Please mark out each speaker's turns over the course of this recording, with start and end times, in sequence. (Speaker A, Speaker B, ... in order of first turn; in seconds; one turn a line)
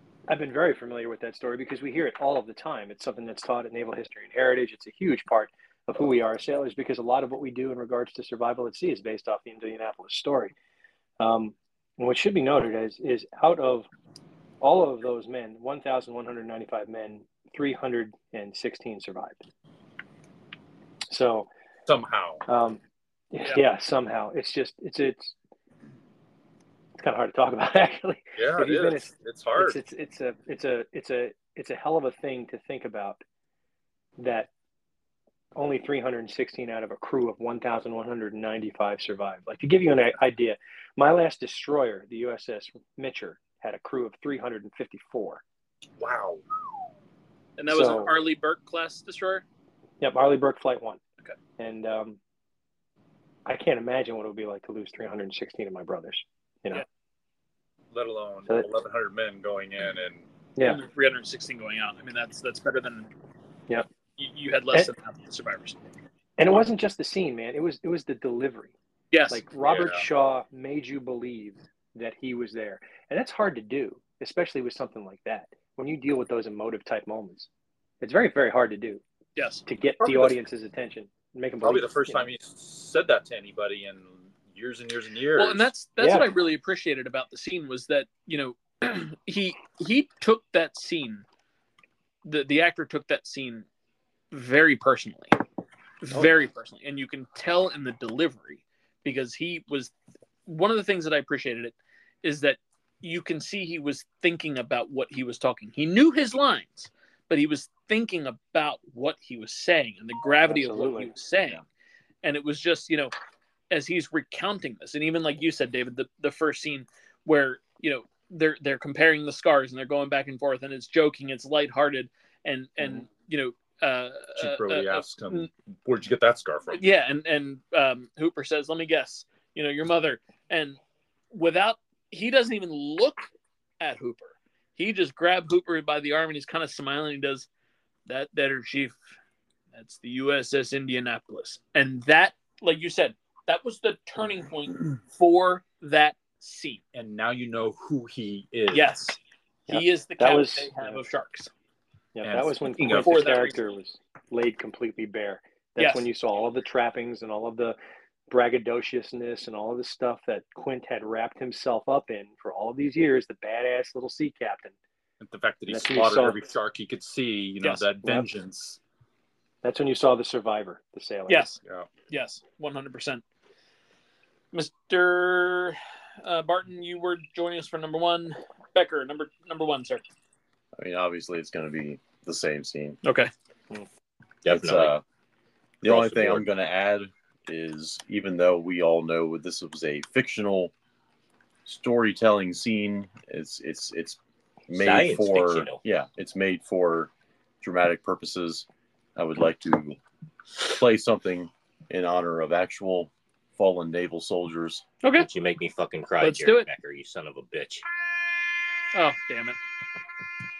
Speaker A: 0.3-10.5
Speaker A: 11.2-13.9
Speaker A: 14.6-19.4
Speaker A: 21.1-21.5
Speaker B: 21.9-22.4
Speaker A: 22.5-22.8
Speaker A: 23.3-25.4
Speaker A: 27.0-33.2
Speaker B: 28.4-29.8
Speaker A: 34.2-34.5
Speaker A: 35.6-45.4
Speaker B: 46.0-46.4
Speaker C: 47.6-49.5
Speaker A: 47.7-48.2
Speaker A: 50.0-51.0
Speaker A: 51.6-52.2
Speaker A: 53.5-56.9
Speaker B: 57.9-60.3
Speaker C: 60.6-63.1
Speaker C: 64.2-65.8
Speaker A: 66.4-68.7
Speaker C: 69.1-69.5
Speaker A: 69.3-77.5
Speaker B: 69.6-70.0
Speaker A: 78.0-79.0
Speaker C: 79.4-79.6
Speaker A: 79.7-82.2
Speaker B: 80.0-80.4
Speaker B: 81.6-85.7
Speaker C: 85.4-91.2
Speaker A: 86.0-86.3
Speaker C: 92.2-93.7
Speaker C: 94.3-95.4
Speaker C: 96.0-99.9
Speaker C: 100.5-111.6
Speaker A: 110.4-111.1
Speaker C: 112.2-113.1
Speaker C: 113.7-125.5
Speaker B: 124.3-126.8
Speaker C: 126.7-130.8
Speaker C: 131.3-133.3
Speaker C: 133.8-137.5
Speaker C: 138.1-139.0
Speaker C: 139.7-146.8
Speaker B: 146.9-148.9
Speaker C: 148.7-151.5
Speaker A: 149.7-151.0
Speaker A: 152.2-157.8
Speaker B: 152.2-153.4
Speaker C: 152.9-153.6
Speaker C: 155.8-156.1
Speaker A: 158.3-164.8
Speaker B: 165.2-168.8
Speaker A: 165.7-166.4
Speaker A: 168.0-168.3
Speaker A: 169.6-171.5
Speaker C: 171.3-173.2
Speaker B: 171.6-171.9
Speaker C: 174.5-180.0
Speaker D: 180.8-183.0
Speaker C: 183.0-183.3
Speaker E: 184.4-185.0
Speaker D: 184.5-185.0
Speaker D: 185.8-190.7
Speaker E: 185.8-186.5
Speaker D: 191.7-200.0
Speaker E: 194.7-195.8
Speaker D: 200.6-204.9
Speaker C: 205.0-205.3
Speaker E: 205.2-207.8
Speaker C: 206.2-206.7
Speaker C: 208.9-209.6